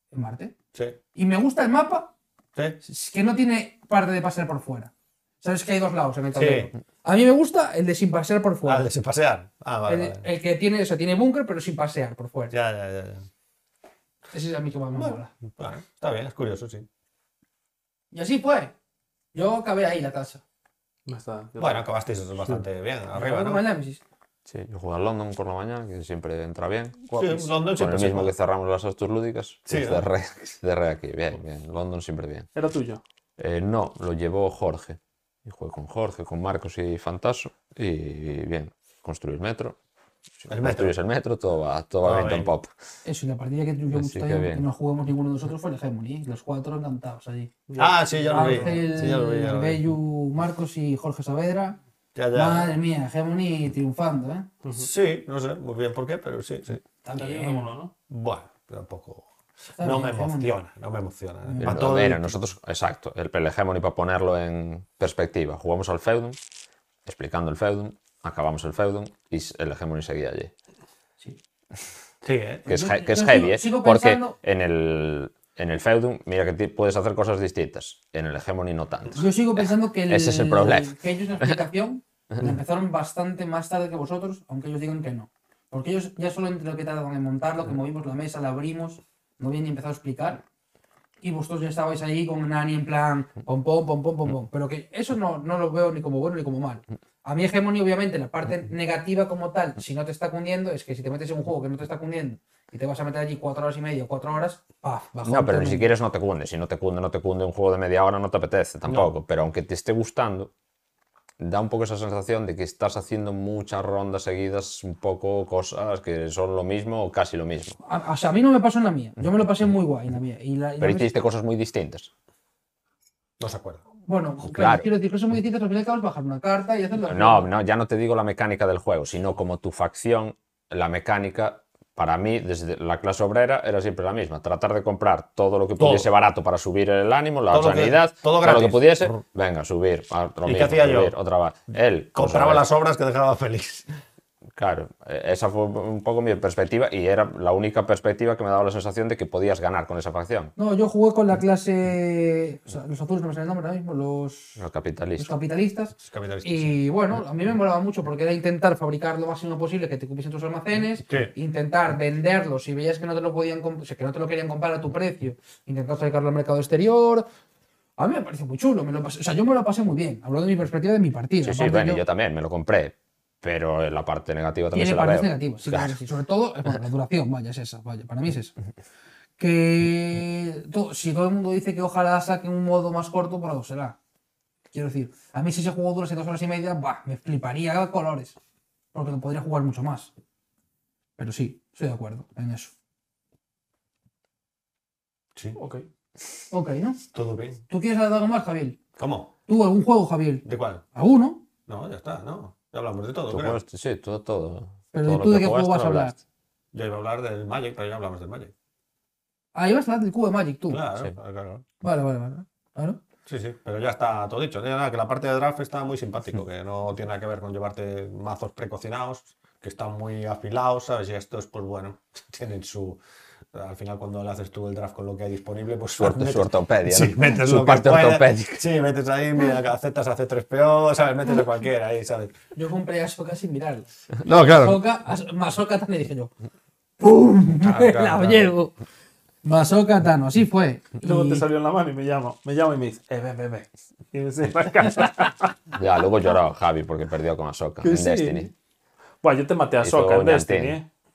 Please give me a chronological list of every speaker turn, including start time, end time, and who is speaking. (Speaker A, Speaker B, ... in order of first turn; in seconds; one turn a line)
Speaker A: 0.1-0.5
Speaker A: 1.1-2.1
Speaker B: 2.5-2.8
Speaker A: 2.8-8.8
Speaker B: 6.3-6.7
Speaker B: 8.6-10.2
Speaker A: 9.8-12.5
Speaker B: 12.5-13.3
Speaker A: 14.3-15.3
Speaker B: 14.9-16.9
Speaker A: 18.1-18.7
Speaker A: 19.3-20.4
Speaker C: 21.1-21.9
Speaker B: 21.6-23.6
Speaker A: 23.1-24.0
Speaker D: 24.6-32.5
Speaker B: 27.1-28.3
Speaker B: 29.7-30.1
Speaker C: 32.5-33.0
Speaker D: 33.4-39.8
Speaker D: 40.4-42.7
Speaker B: 40.5-41.0
Speaker B: 42.0-42.5
Speaker A: 43.0-47.5
Speaker D: 43.9-44.7
Speaker C: 47.7-48.9
Speaker B: 47.8-49.8
Speaker A: 48.3-51.8
Speaker B: 52.1-52.7
Speaker A: 52.3-54.5
Speaker C: 54.6-54.9
Speaker B: 54.7-56.8
Speaker A: 57.0-57.7
Speaker C: 57.1-57.9
Speaker B: 58.1-62.4
Speaker A: 59.8-60.5
Speaker A: 61.4-62.0
Speaker D: 61.6-66.4
Speaker D: 67.0-70.5
Speaker B: 72.2-72.7
Speaker D: 72.7-81.5
Speaker A: 72.7-74.3
Speaker A: 79.1-90.4
Speaker A: 91.2-105.9
Speaker D: 105.2-110.5
Speaker B: 108.8-109.1
Speaker D: 111.4-117.8
Speaker A: 117.8-121.1
Speaker D: 120.8-122.1
Speaker B: 123.4-123.8
Speaker A: 124.1-127.5
Speaker D: 124.4-124.9
Speaker D: 127.0-142.6
Speaker B: 135.8-136.1
Speaker B: 137.5-139.2
Speaker B: 140.4-141.1
Speaker B: 142.1-143.9
Speaker D: 144.6-150.5
Speaker A: 150.6-154.6
Speaker D: 154.6-155.3
Speaker A: 155.2-167.2
Speaker B: 156.0-156.8
Speaker B: 161.1-161.3
Speaker A: 168.0-172.0
Speaker D: 171.4-175.9
Speaker A: 174.7-178.5
Speaker A: 179.4-183.9
Speaker A: 184.7-188.3
Speaker A: 188.9-190.1
Speaker A: 191.2-192.7
Speaker C: 195.6-195.8
Speaker A: 196.5-197.0
Speaker B: 197.1-197.6
Speaker A: 197.7-198.8
Speaker B: 199.0-199.3
Speaker A: 199.5-201.4
Speaker B: 200.4-200.8
Speaker B: 201.7-203.6
Speaker D: 203.3-206.1
Speaker A: 204.9-206.1
Speaker B: 206.7-208.5
Speaker A: 209.5-210.8
Speaker B: 210.7-211.7
Speaker A: 211.8-213.0
Speaker B: 213.2-223.0
Speaker B: 223.5-232.3
Speaker D: 226.0-228.6
Speaker A: 232.5-236.3
Speaker B: 234.2-234.8
Speaker A: 237.0-238.7
Speaker B: 237.6-238.5
Speaker A: 239.4-241.4
Speaker C: 241.0-245.6
Speaker D: 245.7-248.5
Speaker C: 247.8-248.5
Speaker C: 249.2-250.8
Speaker D: 249.8-250.8